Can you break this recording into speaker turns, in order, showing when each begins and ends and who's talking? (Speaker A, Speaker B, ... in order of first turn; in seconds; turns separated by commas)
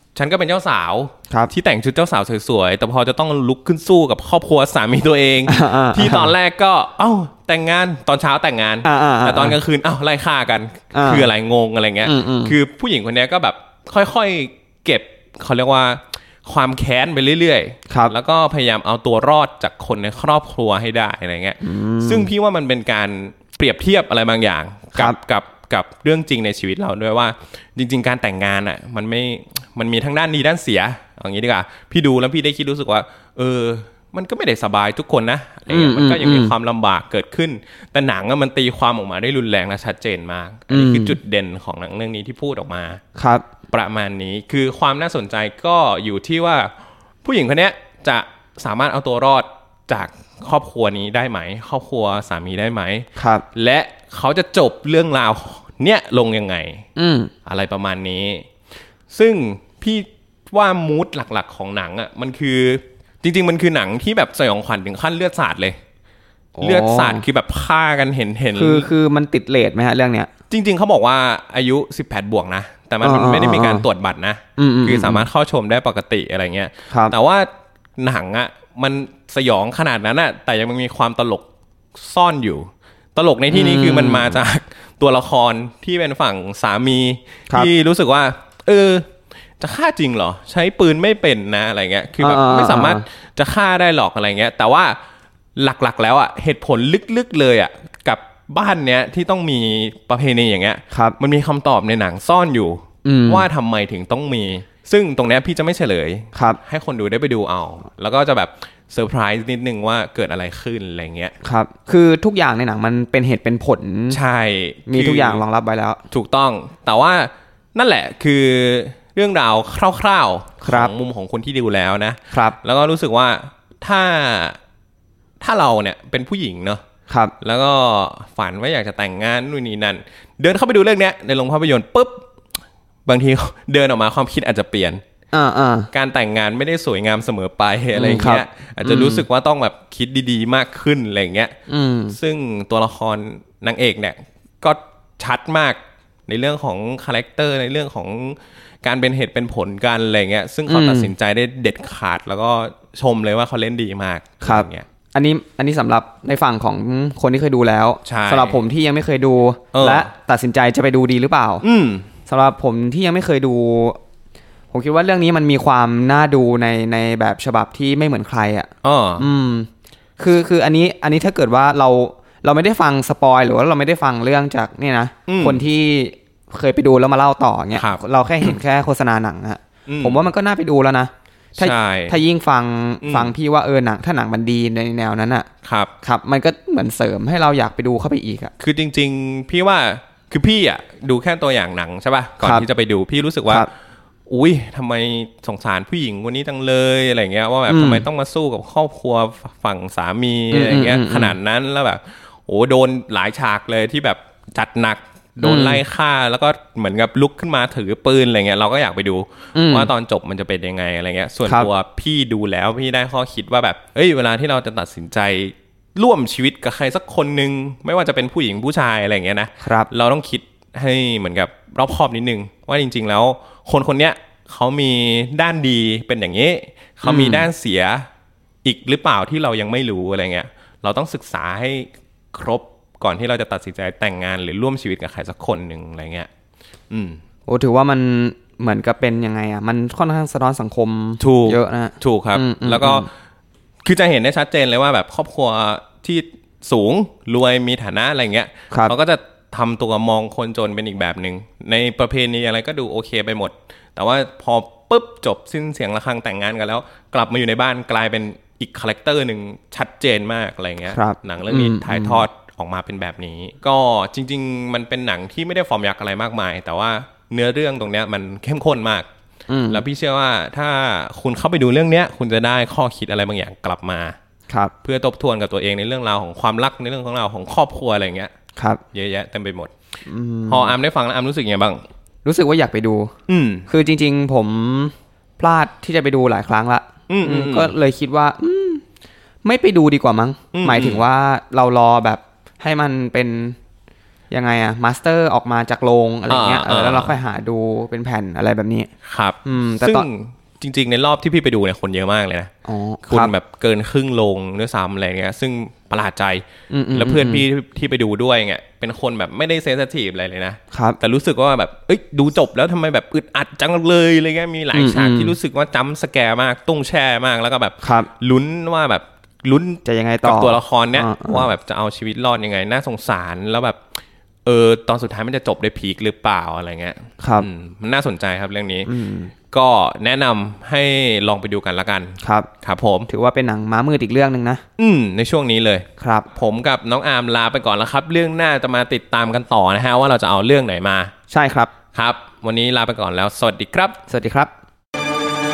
Speaker A: 0.1-43.0, Speaker B: 5.5-6.3, Speaker B: 8.8-9.6, Speaker B: 10.9-11.3, Speaker B: 12.1-12.6, Speaker B: 21.6-22.3, Speaker B: 35.7-36.5, Speaker B: 40.7-41.2, Speaker B: 43.1-43.5, Speaker A: 43.7-46.7, Speaker A: 47.2-56.8, Speaker B: 53.2-53.5, Speaker B: 57.0-57.3, Speaker A: 57.5-58.5, Speaker A: 59.1-65.8, Speaker B: 66.6-67.2, Speaker A: 66.6-68.9, Speaker B: 68.5-70.3, Speaker A: 70.5-81.5, Speaker B: 73.0-73.9, Speaker B: 74.6-75.3, Speaker A: 82.0-89.1, Speaker B: 83.5-84.4, Speaker A: 89.6-95.0, Speaker B: 92.2-93.0, Speaker A: 95.6-111.3, Speaker B: 100.9-101.2, Speaker B: 103.0-103.5, Speaker B: 111.4-114.2, Speaker A: 114.1-115.4, Speaker B: 114.9-116.0, Speaker A: 116.1-124.6, Speaker B: 120.6-120.9, Speaker B: 122.3-122.6, Speaker A: 125.4-126.8, Speaker A: 127.4-132.2, Speaker A: 133.1-135.0, Speaker B: 135.3-135.9, Speaker A: 135.9-141.5, Speaker B: 137.9-139.3, Speaker B: 141.7-142.2, Speaker A: 142.1-154.9, Speaker B: 150.7-151.1, Speaker B: 154.4-161.6, Speaker A: 158.1-158.6, Speaker A: 159.7-160.1, Speaker A: 161.6-162.1, Speaker B: 162.3-164.0, Speaker B: 164.7-169.7, Speaker A: 168.8-169.3, Speaker B: 170.2-185.5, Speaker A: 175.3-175.6, Speaker A: 177.7-178.6, Speaker A: 179.9-180.3, Speaker A: 181.6-182.2, Speaker A: 183.0-183.3, Speaker A: 185.6-185.9, Speaker B: 186.0-188.5, Speaker A: 188.6-193.7, Speaker A: 194.3-228.1, Speaker B: 197.7-198.1, Speaker B: 200.5-201.4, Speaker B: 205.4-205.8, Speaker B: 209.6-209.9, Speaker B: 219.6-219.9, Speaker B: 227.1-227.5, Speaker A: 228.6-236.3, Speaker A: 236.9-237.2, Speaker B: 237.5-243.1, Speaker A: 241.2-243.1, Speaker A: 243.8-269.1, Speaker B: 260.9-262.2, Speaker B: 269.5-269.8, Speaker A: 269.7-274.2, Speaker A: 274.8-278.3, Speaker B: 278.6-278.8, Speaker A: 278.9-279.7, Speaker B: 280.1-280.8, Speaker A: 280.5-281.8, Speaker B: 282.2-283.1, Speaker A: 283.3-283.7, Speaker B: 283.7-288.8, Speaker A: 287.1-287.8, Speaker B: 289.4-293.6, Speaker A: 290.5-291.0, Speaker B: 294.3-298.9, Speaker A: 296.3-297.1, Speaker A: 299.1-302.5, Speaker B: 299.4-300.1, Speaker B: 302.7-303.3, Speaker A: 303.1-306.4, Speaker B: 306.7-307.4, Speaker A: 306.9-323.8, Speaker B: 310.7-311.0, Speaker B: 314.7-315.4, Speaker B: 317.8-318.1, Speaker B: 319.9-321.5, Speaker A: 324.5-328.9, Speaker B: 327.2-327.5, Speaker B: 328.9-329.3, Speaker A: 329.5-333.1, Speaker B: 332.2-332.5, Speaker B: 333.1-334.6, Speaker A: 334.8-341.1, Speaker B: 336.0-336.3, Speaker B: 341.3-341.7, Speaker A: 341.9-344.0, Speaker B: 344.1-344.5